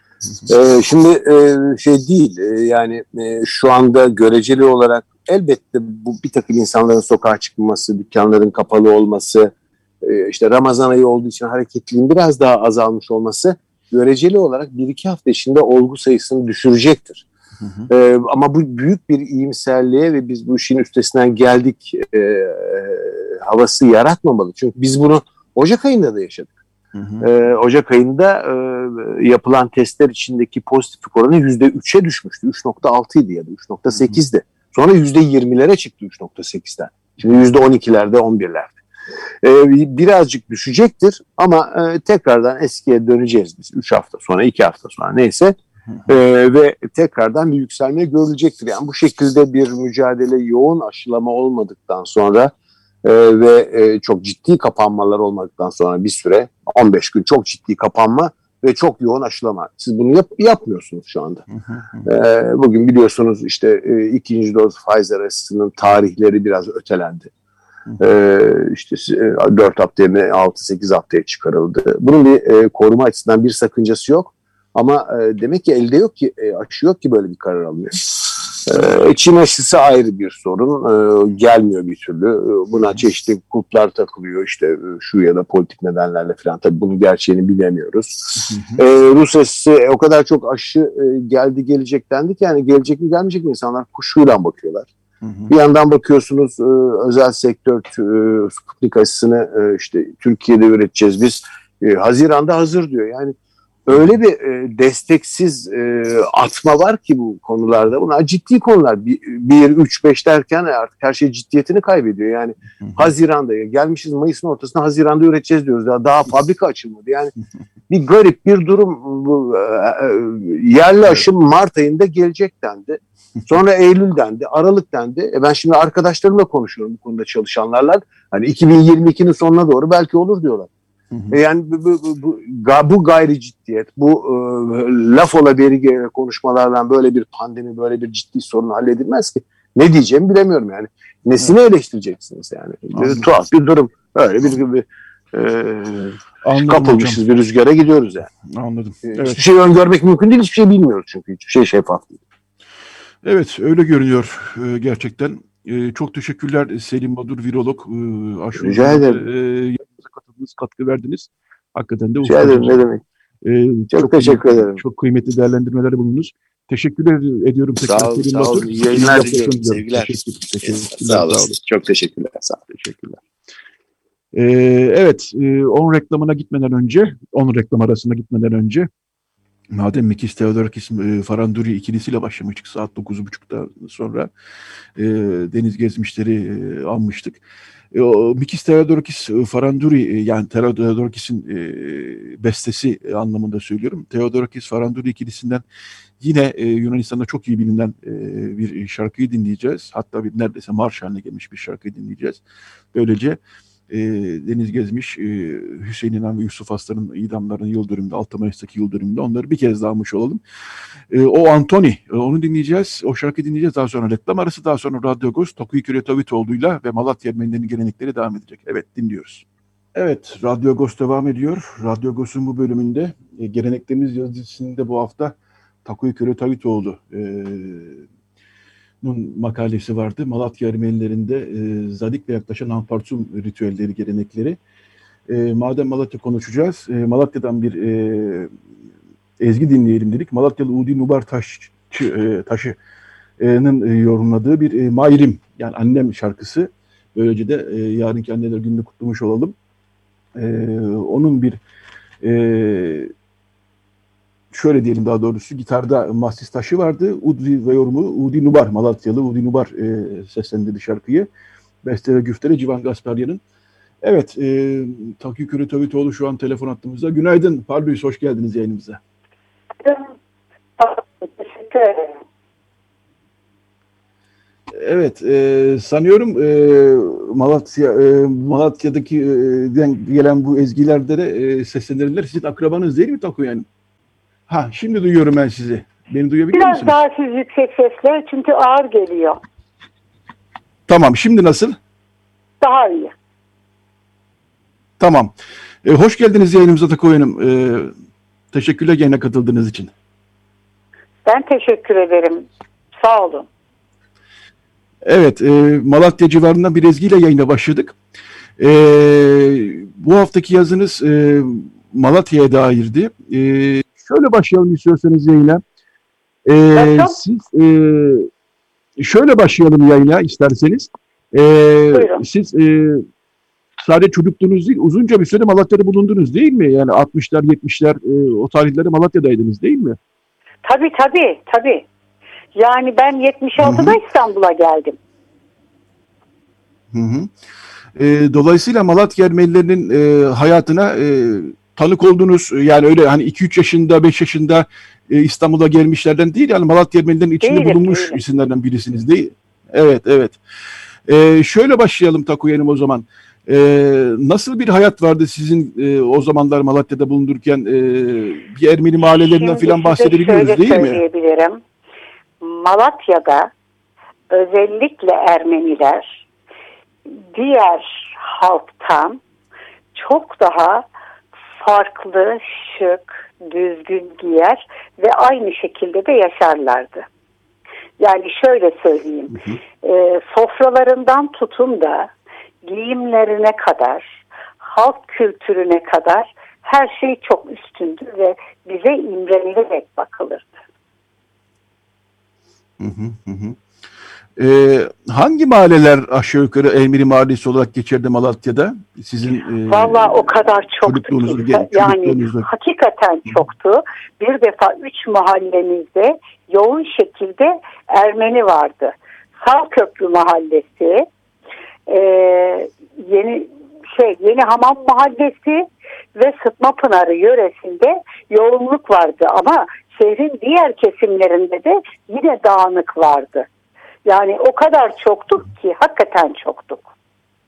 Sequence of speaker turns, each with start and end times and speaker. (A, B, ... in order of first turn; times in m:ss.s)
0:00.5-0:09.5 A
0:10.0-0:17.2 A
0:17.6-0:17.9 B
0:17.9-0:26.5 A
0:26.9-0:27.3 B
0:27.2-0:38.8 A
0:39.4-0:52.5 A
0:53.0-1:01.4 A
1:01.6-1:02.1 B
1:02.0-1:07.3 A
1:08.0-1:34.9 A
1:28.4-1:28.8 B
1:35.2-1:35.5 B
1:35.5-1:43.4 A
1:43.9-1:57.3 A
1:52.8-1:53.1 B
1:57.9-2:10.7 A
2:11.1-2:11.4 B
2:11.3-2:28.3 A
2:22.9-2:23.3 B
2:26.4-2:27.2 B
2:28.4-2:29.4 B
2:29.1-2:32.2 A
2:33.2-2:42.8 B
2:38.6-2:39.2 A
2:42.2-2:43.0 A
2:43.4-2:51.5 B
2:43.9-2:44.8 A
2:47.8-2:52.6 A
2:52.7-2:53.2 B
2:54.3-2:58.9 B
2:59.7-3:04.3 B
3:05.0-3:07.4 B
3:07.9-3:15.6 B
3:16.2-3:22.4 B
3:22.9-3:23.4 B
3:23.9-3:30.4 B
3:31.1-3:39.4 B
3:40.0-3:48.0 B
3:49.0-3:54.6 B
3:55.3-3:58.5 B
3:59.4-4:02.8 B
4:03.4-4:09.6 B
4:10.4-4:11.6 B
4:12.2-4:13.1 B
4:14.5-4:21.3 B
4:21.8-4:23.4 B
4:24.0-4:29.0 B
4:29.8-4:30.1 C
4:30.8-4:32.2 C
4:34.8-4:43.7 B
4:44.5-4:47.0 B
4:46.5-4:49.4 C
4:50.9-4:51.8 B
4:52.6-4:53.1 C
4:55.0-4:55.3 B
4:55.8-4:57.9 B
4:58.5-4:59.9 B
5:01.2-5:03.5 C
5:05.0-5:08.0 B
5:08.6-5:15.6 B
5:16.5-5:18.3 B
5:16.8-5:17.2 C
5:19.0-5:23.0 B
5:21.9-5:22.2 C
5:23.8-5:30.0 B
5:30.6-5:31.8 C
5:32.6-5:35.0 C
5:33.6-5:34.0 B
5:36.9-5:37.3 B
5:38.0-5:50.4 B
5:47.4-5:48.2 C
5:51.1-6:01.0 B
5:59.4-6:01.6 C
6:02.4-6:03.5 C
6:04.3-6:06.2 C
6:07.1-6:09.2 C
6:09.9-6:10.9 C
6:11.6-6:17.1 C
6:18.0-6:22.1 C
6:22.6-6:30.5 C
6:32.8-6:33.6 B
6:34.4-6:42.5 B
6:39.7-6:51.1 C
6:51.9-7:03.5 C
7:04.0-7:06.9 C